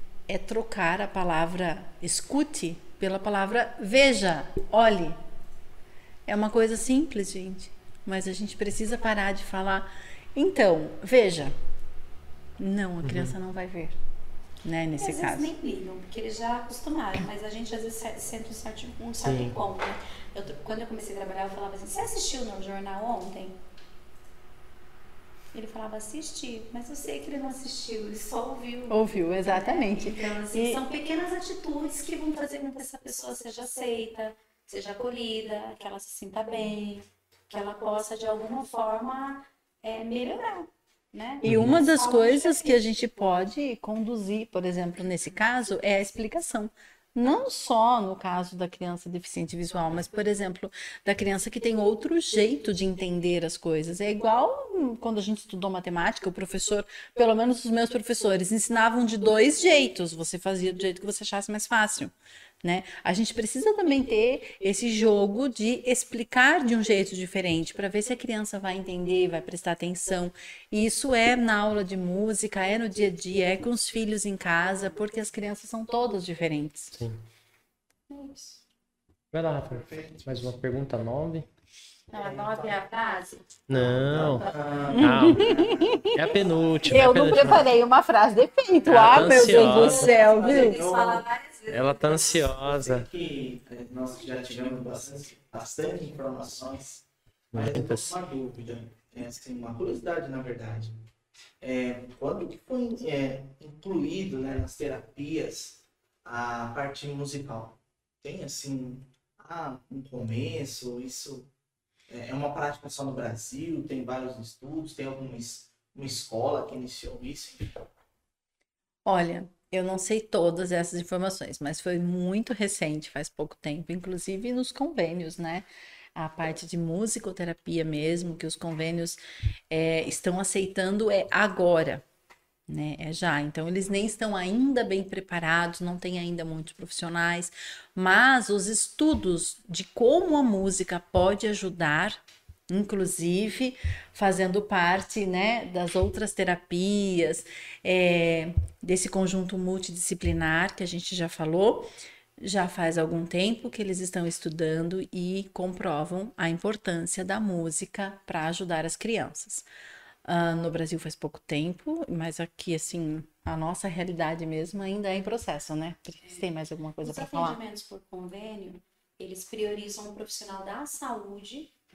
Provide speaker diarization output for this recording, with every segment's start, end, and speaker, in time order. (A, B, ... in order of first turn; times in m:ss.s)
0:00.3-0:05.2 A
0:06.2-0:11.5 A
0:12.6-0:14.0 A
0:13.0-0:13.3 B
0:14.6-0:15.5 A
0:15.0-0:23.6 C
0:19.2-0:19.6 B
0:25.5-0:43.4 C
0:28.9-0:30.8 A
0:41.4-0:41.8 B
0:41.4-1:17.0 A
1:16.9-1:17.2 B
1:18.1-1:18.6 C
1:19.3-1:21.5 B
1:19.6-1:20.6 D
1:22.1-1:23.4 C
1:22.1-1:22.8 D
1:23.7-1:25.5 B
1:23.7-1:27.6 D
1:24.9-1:26.2 A
1:26.1-1:27.7 B
1:26.8-1:30.8 A
1:28.8-1:32.5 C
1:28.9-1:30.1 B
1:29.3-1:31.2 D
1:31.7-1:33.1 B
1:32.6-1:41.0 D
1:37.5-1:38.1 B
1:41.6-1:51.5 D
1:52.1-1:57.8 D
1:59.0-2:09.2 A
2:09.7-2:12.0 A
2:12.7-2:39.7 A
2:40.2-2:47.6 A
2:46.2-2:46.5 C
2:47.0-2:51.7 C